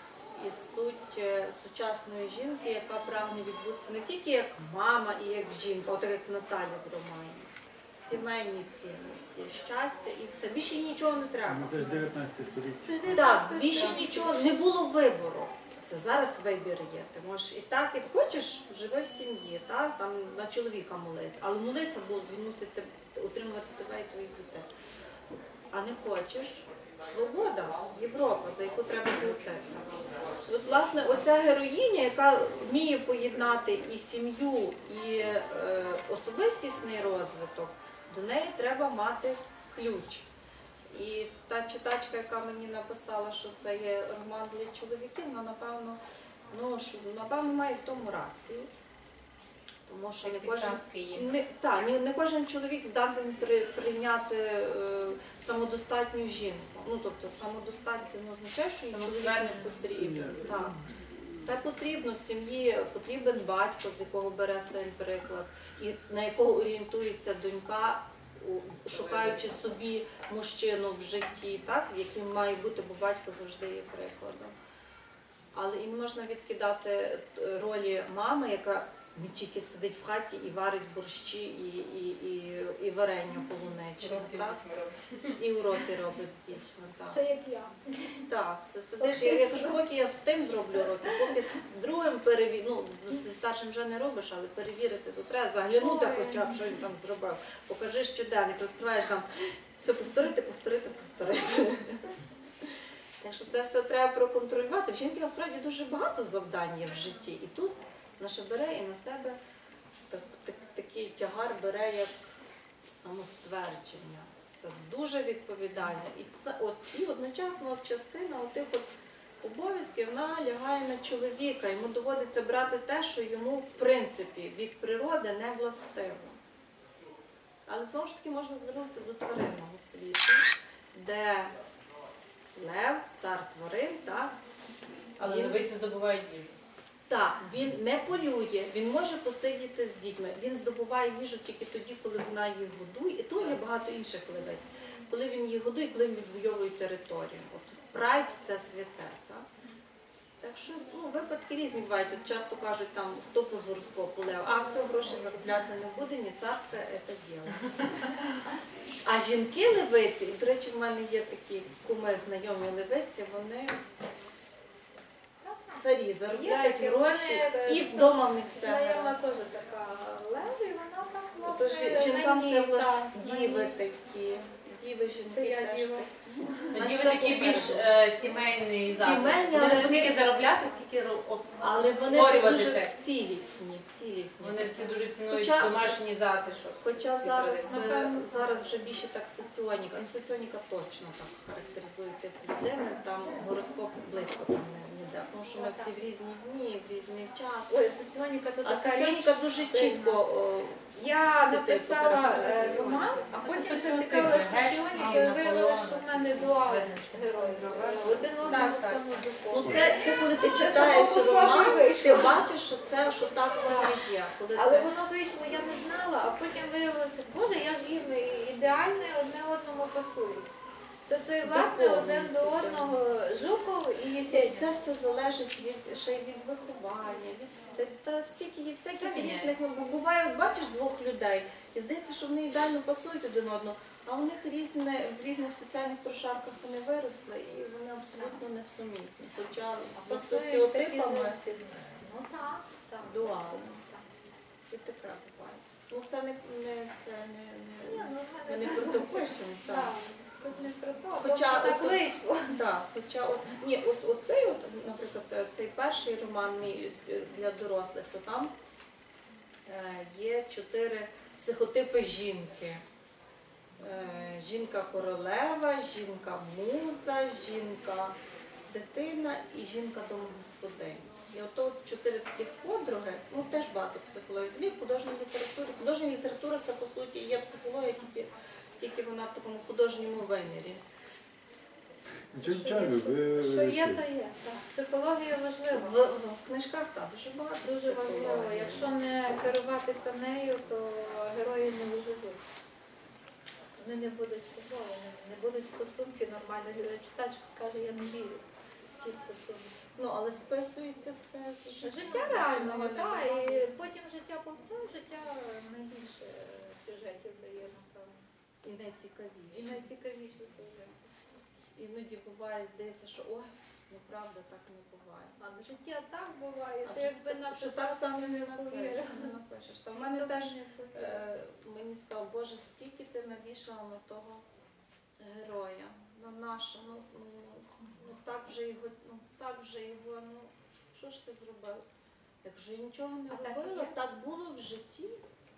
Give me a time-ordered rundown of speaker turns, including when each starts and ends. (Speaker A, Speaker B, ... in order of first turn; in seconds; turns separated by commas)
Speaker A: 0.3-12.1, Speaker B: 11.5-13.2, Speaker C: 12.8-14.5, Speaker A: 13.1-24.7, Speaker A: 25.7-40.3, Speaker A: 40.9-48.7, Speaker A: 49.9-60.8, Speaker D: 50.2-51.3, Speaker D: 58.9-60.2, Speaker A: 61.3-74.5, Speaker A: 75.5-84.6, Speaker D: 84.0-85.3, Speaker A: 85.3-87.2, Speaker C: 87.1-88.2, Speaker A: 88.3-109.4, Speaker C: 89.0-89.8, Speaker C: 90.8-91.4, Speaker C: 95.8-96.6, Speaker A: 110.1-112.2, Speaker A: 112.9-118.9, Speaker A: 119.4-126.4, Speaker A: 127.7-131.5, Speaker A: 132.5-134.3, Speaker D: 135.2-136.5, Speaker A: 135.2-135.6, Speaker A: 137.1-149.5, Speaker A: 150.4-158.2, Speaker A: 159.0-163.8, Speaker C: 165.4-173.8, Speaker A: 165.7-169.2, Speaker A: 171.4-177.9, Speaker C: 175.3-176.8, Speaker D: 176.7-182.9, Speaker A: 179.0-180.1, Speaker A: 181.6-186.0, Speaker D: 184.4-188.1, Speaker A: 186.8-197.7, Speaker C: 187.7-188.5, Speaker C: 195.6-195.9, Speaker C: 197.7-200.2, Speaker A: 198.6-200.9, Speaker C: 200.9-212.4, Speaker A: 201.4-203.2, Speaker D: 202.5-209.0, Speaker A: 204.9-205.8, Speaker A: 208.4-208.9, Speaker A: 209.5-214.9, Speaker C: 213.7-214.0, Speaker C: 214.5-220.5, Speaker C: 221.1-224.7, Speaker A: 221.4-223.0, Speaker A: 224.3-241.4, Speaker D: 228.9-229.6, Speaker C: 239.9-244.1, Speaker A: 243.0-243.8, Speaker A: 244.7-249.9, Speaker C: 247.8-252.6, Speaker A: 251.2-258.5, Speaker A: 259.7-262.8, Speaker A: 263.8-268.1, Speaker A: 268.7-280.8, Speaker B: 282.3-284.0, Speaker C: 282.3-285.9, Speaker A: 285.7-288.9, Speaker C: 287.6-292.4, Speaker C: 293.8-298.4, Speaker C: 299.0-299.7, Speaker A: 300.0-303.7, Speaker C: 301.8-308.2, Speaker A: 308.6-309.8, Speaker C: 309.5-311.1, Speaker A: 311.7-315.4, Speaker C: 315.4-319.3, Speaker A: 316.8-324.4, Speaker C: 319.9-321.2, Speaker A: 325.2-331.8, Speaker A: 332.4-335.2, Speaker C: 333.3-333.9